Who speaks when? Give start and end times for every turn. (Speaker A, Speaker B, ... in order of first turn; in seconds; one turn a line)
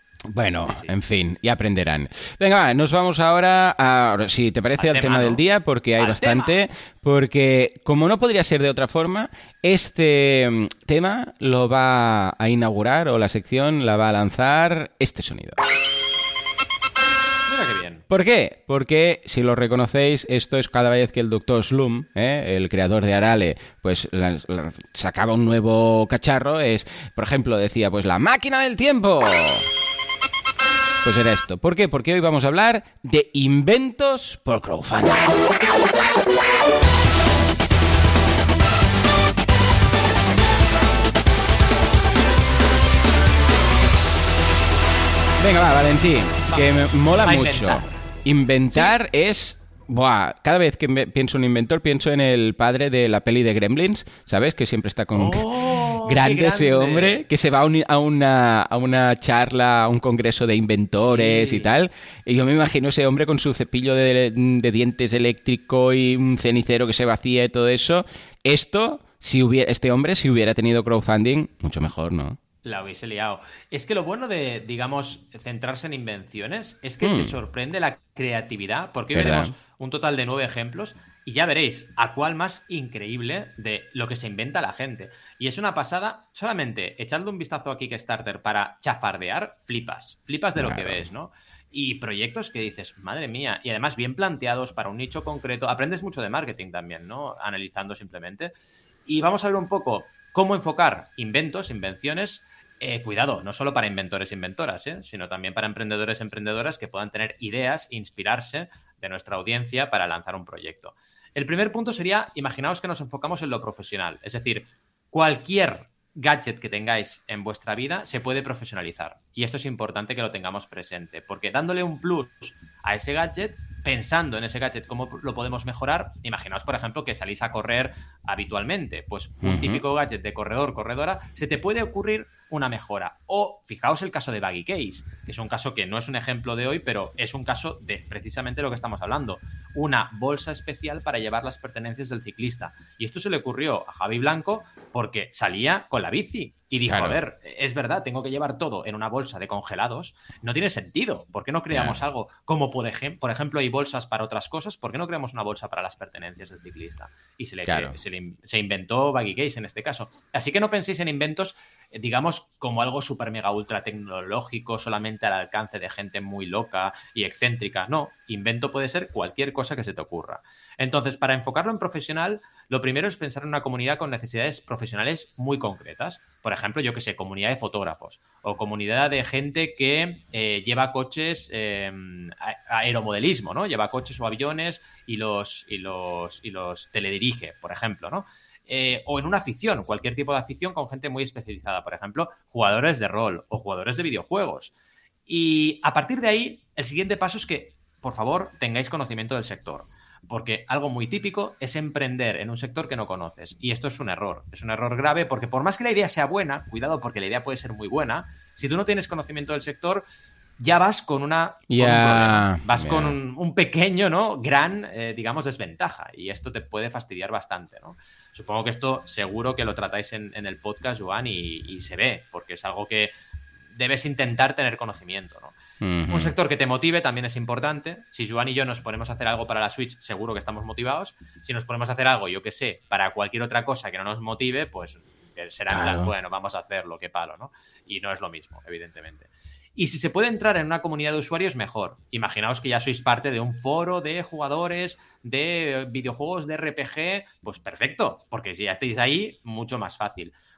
Speaker A: 0.3-15.6
Speaker B: 0.6-0.9
Speaker B: 4.8-5.4
Speaker B: 6.0-6.6
Speaker B: 17.5-18.0
Speaker A: 18.1-29.7
Speaker A: 31.0-35.5
Speaker A: 45.4-72.4
Speaker B: 46.5-48.9
Speaker B: 55.1-57.2
Speaker B: 61.0-61.7
Speaker B: 72.6-98.5
Speaker A: 77.0-77.3
Speaker A: 79.1-79.5
Speaker A: 90.6-91.1
Speaker B: 99.0-194.7
Speaker A: 129.4-129.8
Speaker A: 146.9-147.2
Speaker A: 151.7-152.0
Speaker A: 157.7-158.0
Speaker B: 195.3-210.0
Speaker B: 210.6-223.1
Speaker A: 211.7-213.2
Speaker B: 223.7-225.5
Speaker A: 225.8-226.3
Speaker B: 226.1-250.3
Speaker A: 235.7-236.1